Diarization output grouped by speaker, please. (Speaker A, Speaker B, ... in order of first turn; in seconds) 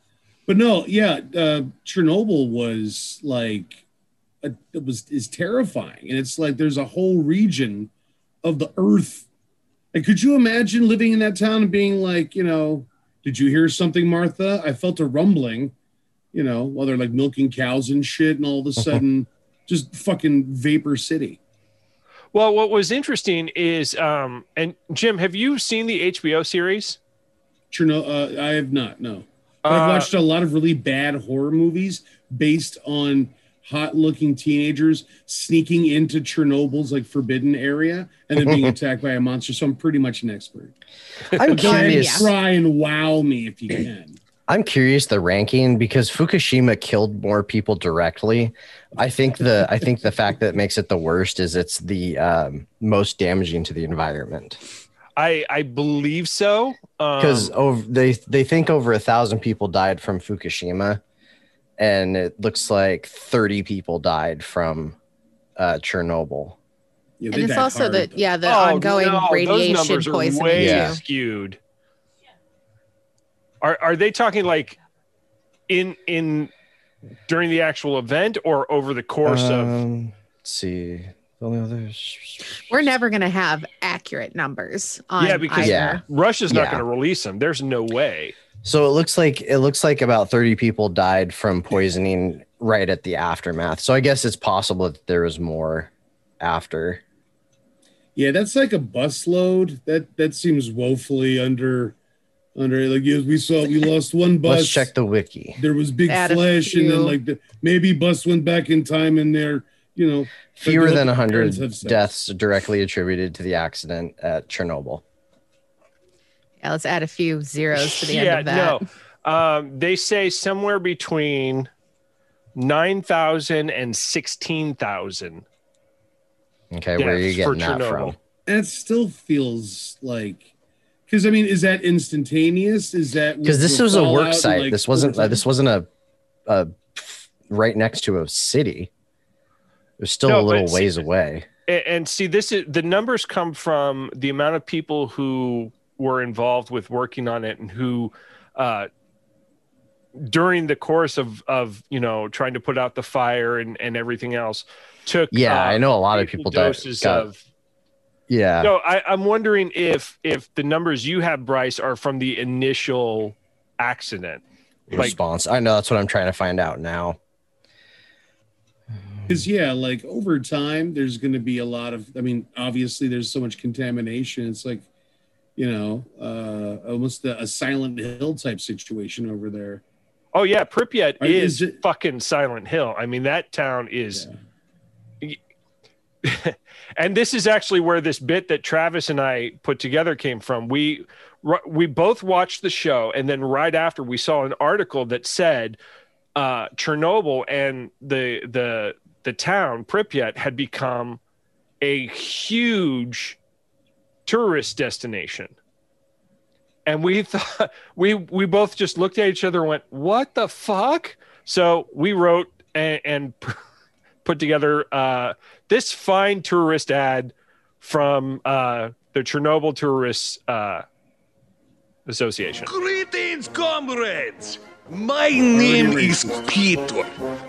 Speaker A: 0.5-3.8, 4.4-7.9, 8.4-9.3, 9.9-15.7, 16.3-21.4, 27.7-40.8, 41.5-44.2, 67.2-68.2, 98.2-102.0, 102.6-104.9, 105.6-112.1, 128.5-130.5, 131.1-135.4, 169.3-174.8, 175.6-179.8, 181.2-181.8, 225.5-226.4
Speaker B: 22.3-27.0, 29.6-30.1, 55.2-57.5, 68.4-71.6, 73.6-74.8, 75.7-76.5, 77.3-79.8, 85.2-88.3, 117.8-121.7, 122.6-125.5, 127.0-128.2, 140.3-141.0, 141.7-148.9, 150.2-157.4, 158.6-165.2, 180.3-184.3, 186.2-195.8, 196.4-201.2, 201.8-203.4, 204.3-205.6, 206.9-213.6, 214.2-220.8, 222.1-222.7
Speaker C: 41.4-42.3, 44.5-54.6, 57.2-61.0, 61.8-65.0, 65.6-66.6, 70.6-71.0, 79.2-82.9, 85.6-86.8, 88.6-97.0, 104.4-105.6, 110.6-115.0, 126.7-128.2, 133.4-135.9, 136.5-138.9, 140.0-141.5, 155.3-157.3, 158.3-158.7, 164.9-167.2
Speaker D: 41.5-42.3, 67.3-71.0, 82.7-86.0, 106.1-107.2, 116.6-118.8
Speaker E: 222.7-227.1